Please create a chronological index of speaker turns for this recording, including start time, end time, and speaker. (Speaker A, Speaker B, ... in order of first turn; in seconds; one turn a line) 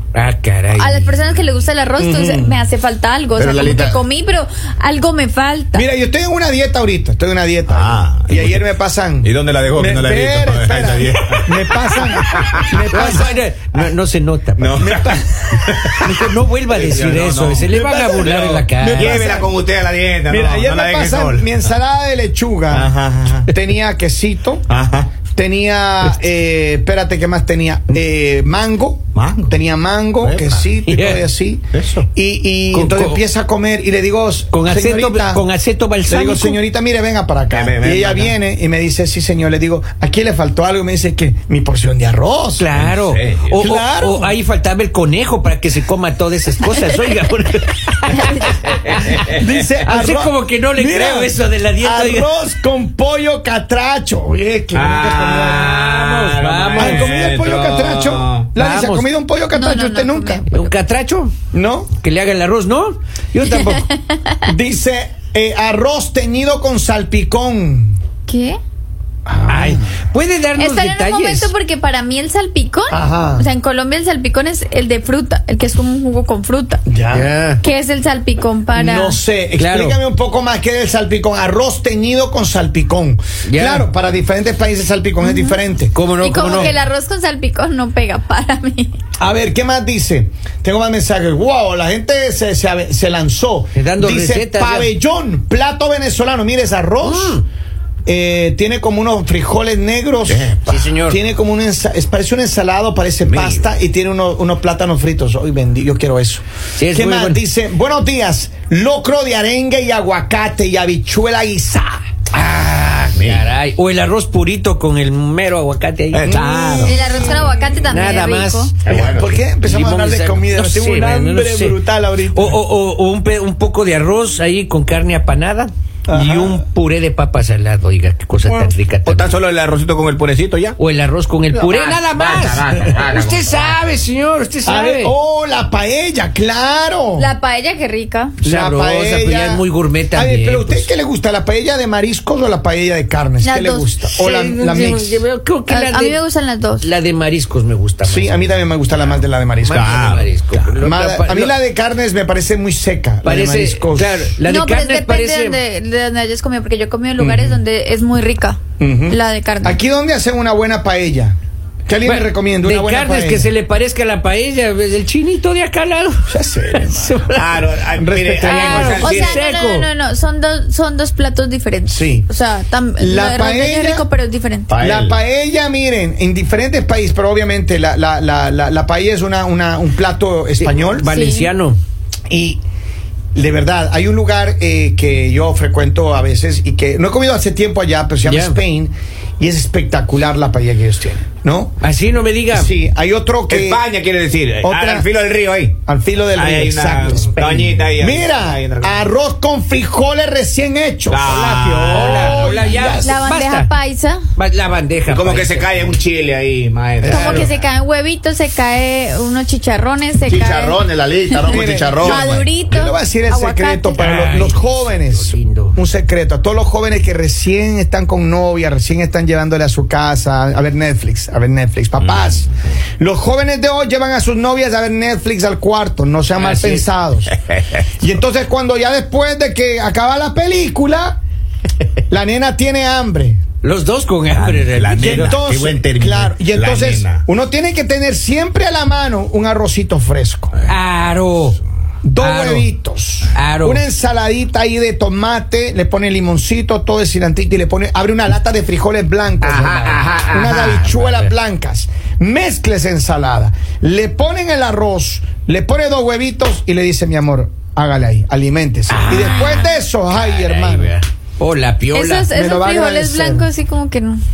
Speaker A: 0.1-1.3
Speaker B: 0.8-5.8
Speaker C: 2.0-2.6
Speaker D: 3.4-4.0
Speaker C: 5.7-13.4
Speaker D: 7.7-8.6
Speaker D: 9.2-12.8
Speaker A: 12.9-14.9
Speaker D: 14.6-21.6
Speaker C: 14.8-15.5
Speaker A: 16.0-19.3
Speaker C: 17.6-19.5
Speaker C: 20.2-22.9
Speaker D: 22.7-23.5
Speaker C: 23.4-24.6
Speaker D: 24.7-25.2
Speaker C: 25.3-35.4
Speaker D: 29.1-29.5
Speaker D: 30.2-30.6
Speaker A: 30.9-31.2
Speaker D: 31.7-32.0
Speaker A: 32.7-33.2
Speaker A: 34.5-36.6
Speaker C: 36.1-42.7
Speaker D: 37.5-38.3
Speaker A: 42.6-49.2
Speaker D: 42.8-43.6
Speaker C: 43.6-44.4
Speaker C: 49.2-55.8
Speaker A: 49.8-52.3
Speaker D: 54.7-58.5
Speaker A: 55.5-57.2
Speaker C: 56.8-60.5
Speaker A: 58.5-59.1
Speaker B: 59.5-60.5
Speaker A: 60.5-61.3
Speaker C: 61.5-61.9
Speaker A: 62.0-63.9
Speaker B: 63.6-64.4
Speaker C: 64.4-68.0
Speaker B: 68.3-68.6
Speaker C: 69.2-70.0
Speaker A: 69.5-71.5
Speaker B: 70.6-76.8
Speaker C: 72.9-73.5
Speaker C: 76.8-77.3
Speaker A: 77.1-77.6
Speaker B: 77.6-79.2
Speaker C: 78.7-86.0
Speaker A: 79.6-80.0
Speaker A: 83.5-83.9
Speaker B: 85.2-85.6
Speaker A: 85.9-86.7
Speaker B: 86.2-88.9
Speaker C: 89.2-97.4
Speaker A: 93.7-94.9
Speaker A: 97.0-97.4
Speaker C: 98.0-112.0
Speaker D: 100.3-100.8
Speaker A: 100.7-101.2
Speaker D: 103.2-103.7
Speaker A: 106.8-107.4
Speaker A: 112.3-116.4
Speaker D: 113.1-113.5
Speaker D: 116.1-117.0
Speaker C: 116.3-117.0
Speaker B: 116.7-118.7
Speaker A: 117.9-121.8
Speaker D: 118.8-119.3
Speaker C: 118.8-122.6
Speaker A: 122.3-129.3
Speaker C: 126.1-126.6
Speaker C: 128.4-128.7
Speaker D: 129.0-130.8
Speaker A: 130.8-135.1
Speaker D: 131.6-133.8
Speaker C: 134.6-137.3
Speaker B: 137.2-138.4
Speaker C: 138.4-145.2
Speaker A: 138.4-140.9
Speaker B: 143.4-143.9
Speaker A: 144.1-146.2
Speaker B: 145.7-146.9
Speaker A: 146.8-148.5
Speaker C: 148.0-150.1
Speaker A: 149.6-151.6
Speaker D: 149.7-150.7
Speaker C: 150.8-154.3
Speaker A: 153.2-155.6
Speaker B: 154.4-159.8
Speaker C: 157.2-157.6
Speaker C: 158.8-163.5
Speaker A: 162.0-167.6
Speaker C: 166.3-167.2
Speaker D: 167.3-169.4
Speaker C: 167.9-169.0
Speaker A: 168.4-169.9
Speaker B: 169.0-174.8
Speaker C: 171.8-172.3
Speaker C: 173.0-174.1
Speaker D: 174.7-175.2
Speaker C: 174.8-181.1
Speaker A: 180.6-181.8
Speaker B: 181.0-181.5
Speaker C: 182.3-182.6
Speaker C: 183.3-191.8
Speaker A: 188.2-188.6
Speaker A: 191.8-192.7
Speaker C: 192.5-193.8
Speaker D: 193.5-195.8
Speaker C: 194.6-195.1
Speaker C: 195.8-203.2
Speaker D: 196.3-199.1
Speaker D: 201.1-202.4
Speaker A: 201.7-203.7
Speaker B: 202.2-204.2
Speaker A: 204.3-206.0
Speaker D: 205.1-207.2
Speaker C: 207.0-207.5
Speaker B: 207.0-214.1
Speaker A: 207.1-207.5
Speaker D: 210.3-212.5
Speaker C: 211.4-227.3
Speaker A: 214.0-215.8
Speaker D: 222.0-222.3
Speaker A: 226.3-226.8
Speaker D: 227.5-227.8
Speaker C: 228.0-231.2
Speaker C: 232.1-233.4
Speaker A: 233.6-235.4
Speaker D: 234.3-237.2
Speaker C: 235.0-240.5
Speaker A: 240.7-241.6
Speaker C: 242.0-260.9
Speaker A: 242.2-242.7
Speaker A: 243.3-243.8
Speaker A: 249.4-251.3
Speaker A: 258.9-259.6
Speaker B: 259.1-259.8
Speaker D: 260.3-260.9
Speaker A: 261.4-262.3
Speaker B: 261.9-264.2
Speaker C: 262.3-263.5